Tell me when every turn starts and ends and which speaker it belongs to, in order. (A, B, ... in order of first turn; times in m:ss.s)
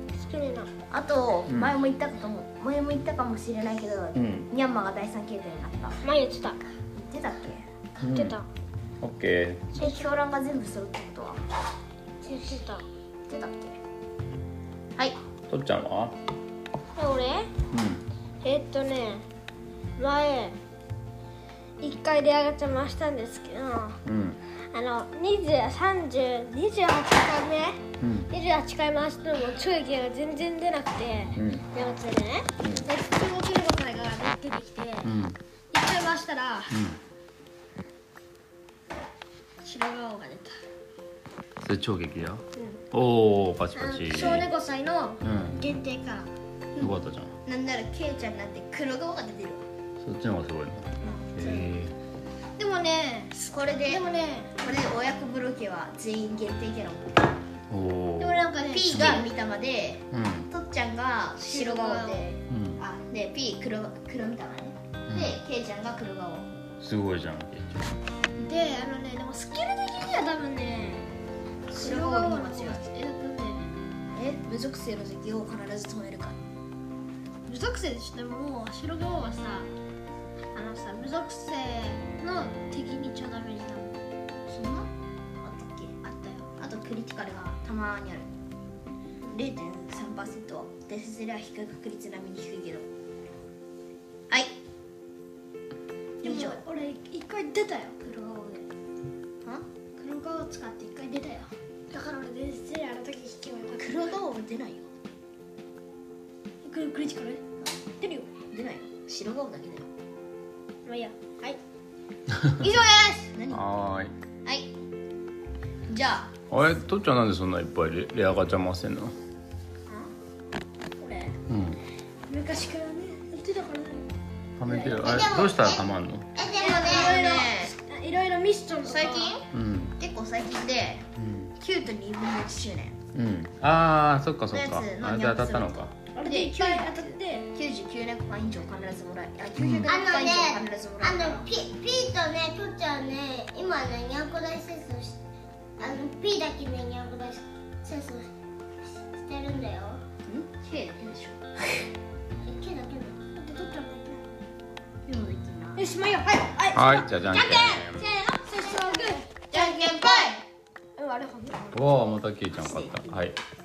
0:00.2-0:00.7 A
0:00.9-0:06.0 B
0:01.5-0:01.7 C
0:04.2-0:04.5 C
0:06.0-0:06.6 A
0:06.9-0:07.7 B
0:08.0-0:08.4 C
0:08.0-0:08.5 A
0:09.0-0:09.8 C
0:09.8-0:11.4 B
0:12.2-0:12.8 A
0:13.3-0:13.8 B
0:15.5-0:16.2 C
0:17.0-0:17.5 A
0:17.7-0:18.0 C
0:18.4-0:19.2 A
0:20.0-0:20.6 A
0:21.8-0:24.0 A
0:24.0-0:24.4 C
0:24.7-0:35.1 A
0:28.0-0:28.3 C
0:31.4-0:31.7 C
0:32.6-0:32.9 C
0:35.0-0:35.4 C
0:35.7-0:36.8 A
0:36.7-0:37.0 C
0:39.6-0:40.6 A
0:41.6-0:44.5 C
0:42.6-0:42.8 A
0:43.7-0:46.3 A
0:45.2-0:45.7 C
0:46.8-0:47.4 C
0:47.4-0:49.6 B
0:50.0-0:51.9 C
0:51.0-0:51.6 B
0:52.6-0:54.6 A
0:53.4-0:54.0 B
0:54.6-0:57.2 B
0:57.7-0:59.2 C
0:58.2-0:59.2 A
0:58.6-1:06.5 B
1:00.1-1:00.5 C
1:01.4-1:02.3 A
1:02.5-1:02.8 C
1:05.1-1:05.4 C
1:06.8-1:07.9 C
1:08.4-1:11.1 A
1:11.7-1:12.8 B
1:11.7-1:13.7 A
1:14.1-1:16.4 B
1:17.5-1:19.7 A
1:20.5-1:24.0 A
1:24.5-1:24.9 B
1:25.4-1:25.9 B
1:26.0-1:26.5 A
1:26.6-1:28.3 B
1:29.3-1:32.9 B
1:36.2-1:38.7 A
1:36.2-1:36.6 B
1:40.0-1:44.0 A
1:43.8-1:44.9 B
1:46.6-1:47.4 A
1:48.0-1:48.3 A
1:48.5-1:49.9 B
1:50.9-1:51.6 A
1:52.6-1:53.3 A
1:53.3-1:53.6 B
1:53.5-1:54.1 C
1:54.4-1:54.7 B
1:55.9-1:56.3 B
1:56.5-1:59.2 C
2:01.0-2:01.4 A
2:01.5-2:01.8 C
2:02.3-2:04.1 A
2:04.6-2:06.3 C
2:04.6-2:05.1 A
2:04.9-2:05.8 D
2:06.4-2:07.2 D
2:06.4-2:07.7 B
2:06.6-2:09.4 A
2:08.8-2:09.4 B
2:09.5-2:09.9 C
2:10.0-2:11.1 B
2:11.2-2:11.5 C
2:11.6-2:13.0 B
2:13.1-2:15.9 C
2:14.5-2:21.5 B
2:16.1-2:17.5 A
2:19.6-2:19.9 C
2:19.9-2:25.2 D
2:25.8-2:28.3 D
2:28.9-2:30.0 D
2:30.2-2:31.4 B
2:32.4-2:33.2 D
2:33.3-2:34.2 A
2:35.1-2:35.9 B
2:35.8-2:40.4 A
2:36.7-2:38.1 C
2:39.5-2:40.4 B
2:41.0-2:41.8 A
2:41.7-2:43.4 C
2:42.6-2:43.1 B